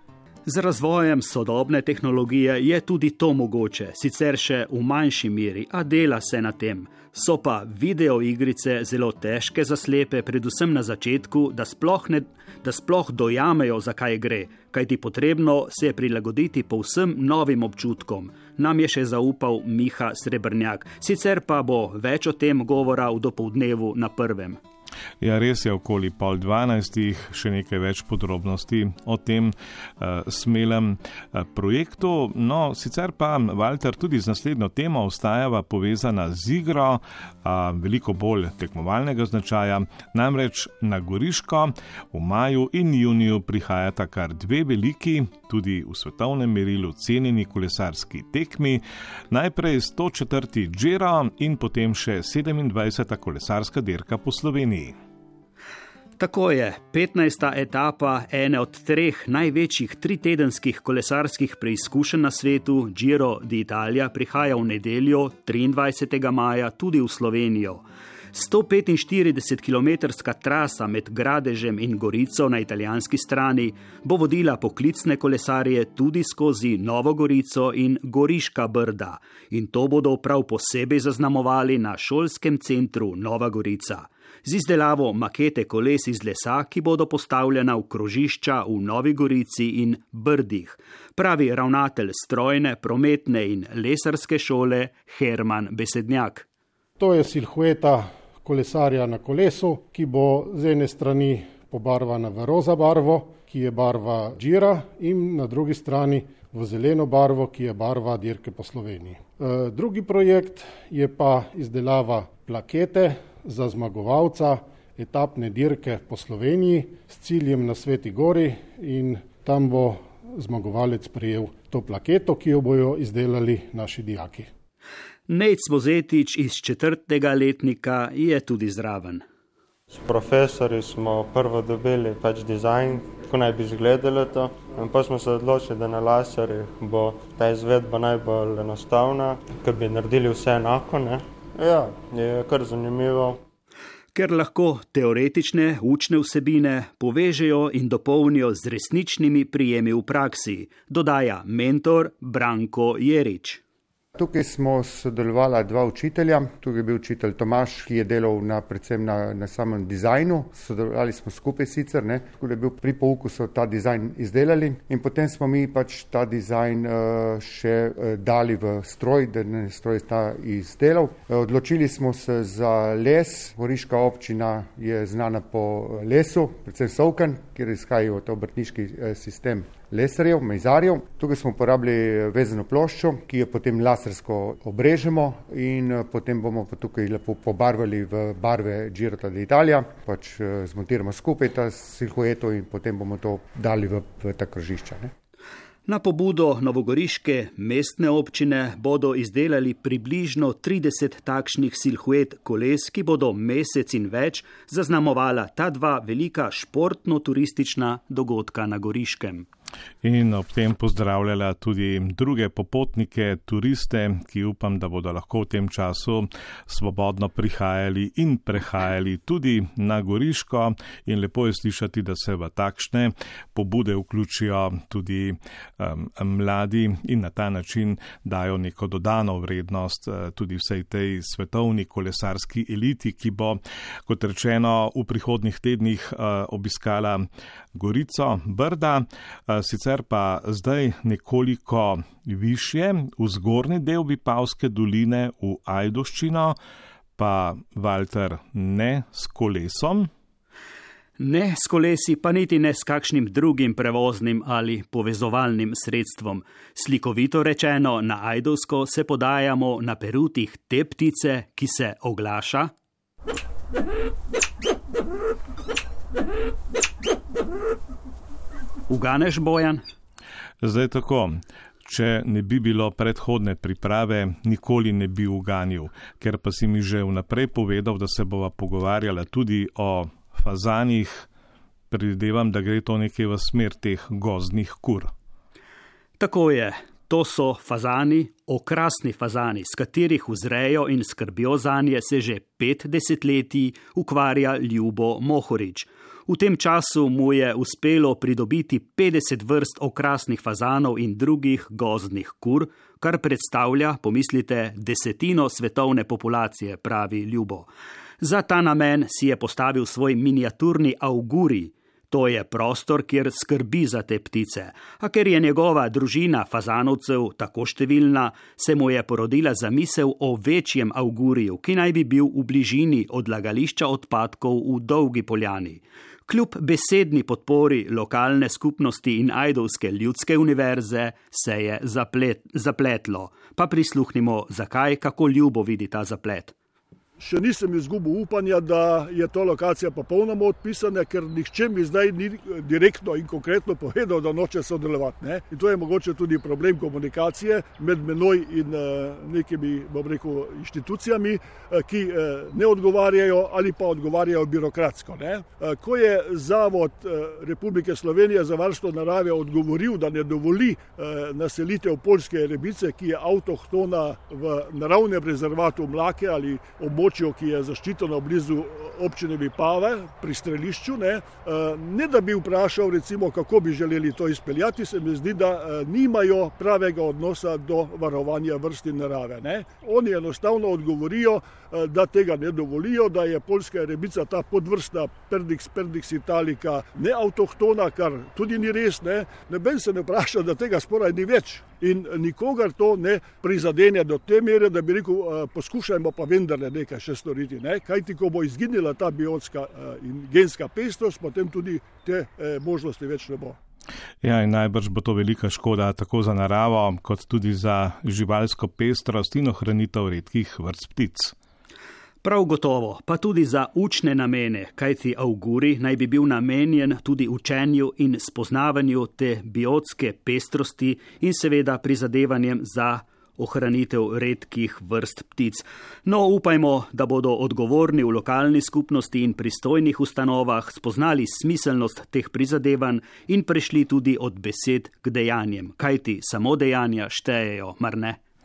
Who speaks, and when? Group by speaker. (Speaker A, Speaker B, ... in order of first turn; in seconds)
Speaker A: 0.5-24.6, 56.2-96.5, 125.3-129.2, 144.2-153.6, 195.9-209.5, 251.2-262.7, 268.9-269.8, 286.2-307.7, 308.2-336.5, 412.2-438.2
Speaker B: 25.2-55.0, 210.0-246.6, 247.2-250.1, 270.6-271.3, 271.9-281.3, 281.9-285.1, 404.2-411.3
Speaker C: 97.0-124.5
Speaker D: 129.9-143.4
Speaker E: 154.2-195.1
Speaker F: 337.2-403.6